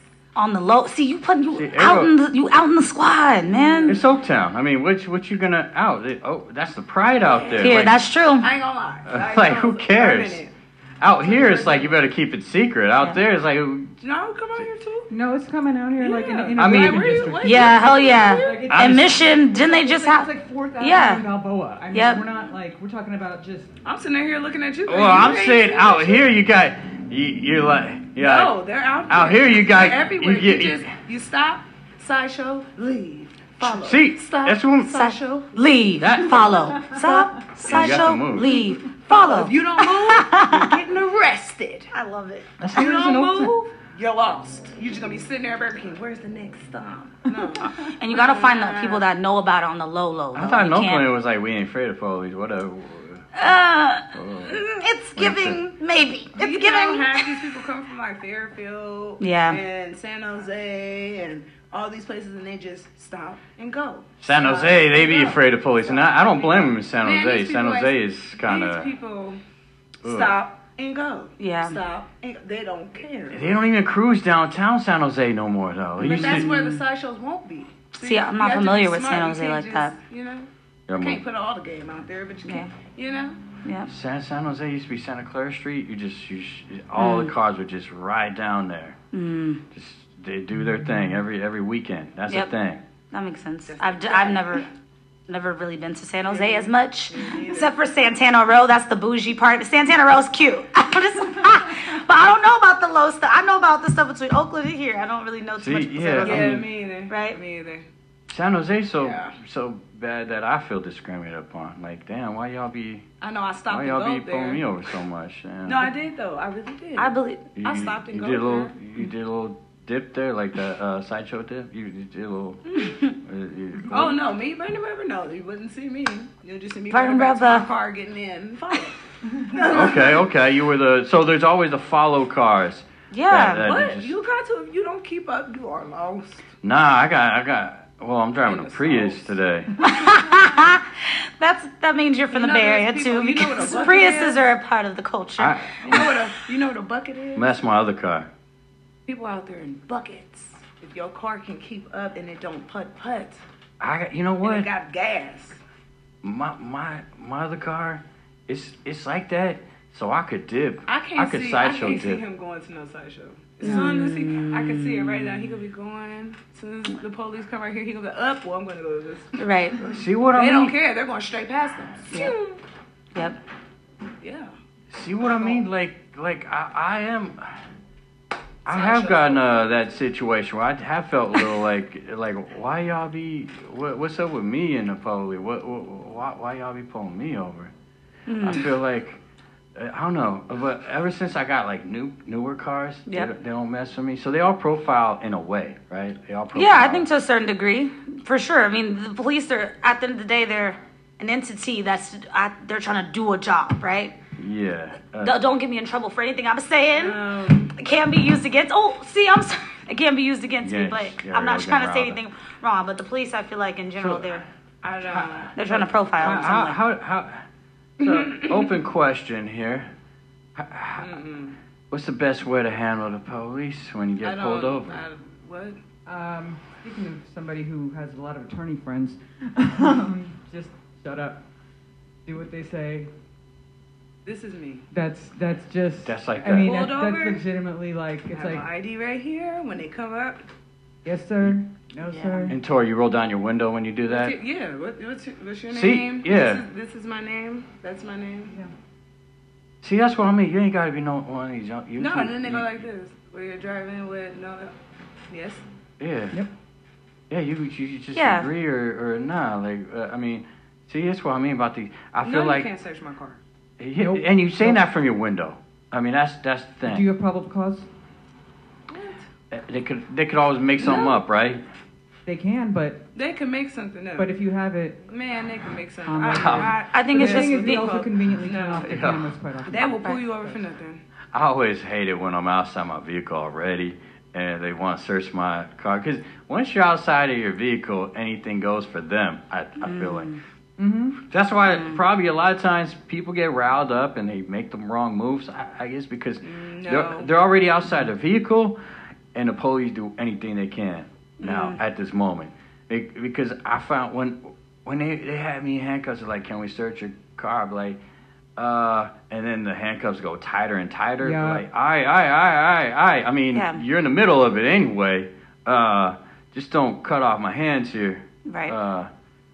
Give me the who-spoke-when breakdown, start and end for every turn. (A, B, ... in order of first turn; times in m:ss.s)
0:00.3-0:04.0 A
0:01.5-0:02.1 B
0:03.4-0:04.0 C
0:03.8-0:08.0 B
0:07.2-0:10.5 C
0:07.6-0:08.5 A
0:09.0-0:10.4 B
0:11.0-0:13.9 B
0:11.2-0:12.0 C
0:14.0-0:15.1 C
0:15.1-0:23.7 D
0:16.0-0:18.7 C
0:16.6-0:17.3 B
0:17.4-0:21.2 A
0:18.7-0:19.2 B
0:21.9-0:22.2 A
0:23.8-0:26.3 C
0:24.9-0:30.9 B
0:28.2-0:35.6 C
0:33.6-0:35.0 B
0:34.9-0:40.7 A
0:36.0-0:36.6 B
0:36.4-0:37.0 C
0:37.6-0:41.9 C
0:37.6-0:38.5 B
0:41.9-0:42.5 A
0:42.6-0:43.5 B
0:42.7-0:49.0 C
0:47.8-0:51.1 A
0:50.3-0:53.5 B
0:53.4-0:57.4 A
0:54.1-0:55.6 B
0:56.3-1:09.4 C
0:59.2-0:59.6 A
1:04.2-1:08.9 B
1:10.0-1:10.4 B
1:10.0-1:13.4 C
1:11.4-1:11.8 A
1:13.3-1:16.5 B
1:16.0-1:16.8 A
1:16.0-1:23.4 C
1:18.0-1:19.9 A
1:20.9-1:21.2 B
1:22.4-1:22.7 A
1:23.6-1:23.9 A
1:23.9-1:29.0 B
1:27.0-1:27.3 A
1:29.1-1:29.6 A
1:29.7-1:32.8 B
1:33.1-1:34.6 A
1:33.6-1:34.7 C
1:35.3-1:47.4 A
1:36.2-1:37.8 C
1:45.6-1:46.7 B
1:46.2-1:47.9 C
1:48.3-1:53.0 B
1:49.0-1:49.4 C
1:53.2-1:54.7 C
1:53.7-1:55.9 B
1:55.6-1:58.8 C
1:57.0-1:57.4 A
1:57.6-2:04.2 B
2:02.6-2:03.0 C
2:02.8-2:03.1 A
2:03.9-2:10.2 C
2:06.9-2:07.6 A
2:09.6-2:14.1 B
2:13.1-2:13.6 A
2:13.6-2:16.4 C
2:16.6-2:19.7 B
2:18.4-2:19.3 C
2:19.8-2:26.0 A
2:22.3-2:24.5 C
2:25.4-2:26.2 B
2:25.8-2:27.7 C
2:27.4-2:28.3 B
2:29.0-2:33.4 C
2:33.8-2:34.7 B
2:34.4-2:35.6 C
2:36.2-2:42.2 B
2:40.9-2:52.6 C
2:43.6-2:45.2 A
2:49.4-2:49.8 A
2:49.8-2:50.7 B
2:54.2-2:54.5 C
2:54.9-2:57.6 B
2:55.3-2:55.6 C
2:58.6-3:07.7 B
2:58.7-2:59.7 C
3:08.3-3:08.7 A
3:08.4-3:09.2 B
3:09.7-3:17.1 B
3:16.5-3:24.2 A
3:24.4-3:25.3 B
3:25.2-3:27.2 A
3:26.9-3:27.8 C
3:27.7-3:34.4 A
3:30.6-3:32.2 B
3:34.0-3:34.5 B
3:34.8-3:36.6 C
3:35.1-3:35.4 B
3:35.6-3:36.8 A
3:36.2-3:37.4 B
3:38.0-3:39.9 B
3:38.0-3:38.7 C
3:40.6-3:41.1 B
3:41.0-3:41.6 C
3:41.9-3:45.0 B
3:44.2-3:45.8 C
3:46.0-3:51.4 D
3:52.2-3:53.1 D
3:54.2-3:54.8 C
3:54.9-3:58.6 D
3:56.0-3:56.8 B
3:56.5-3:57.4 C
3:58.3-4:00.4 C
4:01.0-4:02.6 D
4:02.5-4:04.4 B
4:04.1-4:08.5 C
4:05.7-4:06.6 B
4:09.8-4:12.6 B
4:12.0-4:14.7 C
4:15.3-4:15.6 C
4:16.0-4:16.4 B
4:17.3-4:22.7 B
4:18.1-4:18.5 A
4:22.2-4:23.4 C
4:23.8-4:27.0 B
4:24.0-4:24.8 D
4:26.8-4:27.9 D
4:28.9-4:29.3 C
4:29.5-4:31.6 B
4:30.8-4:31.2 C
4:32.2-4:33.0 D
4:33.1-4:34.3 C
4:34.2-4:35.0 D
4:35.0-4:39.0 C
4:36.0-4:40.6 D
4:36.3-4:36.7 B
4:36.9-4:37.9 A
4:38.8-4:39.3 B
4:39.6-4:41.0 C
4:41.3-4:50.3 B
4:49.8-4:50.4 A
4:50.8-4:51.2 D
4:51.2-4:58.8 B
4:51.7-4:52.0 A
4:56.4-4:57.3 C
4:59.3-5:08.0 B
5:01.4-5:01.8 A
5:08.6-5:19.1 B
5:11.2-5:11.6 D
5:13.5-5:13.8 A
5:18.4-5:18.7 A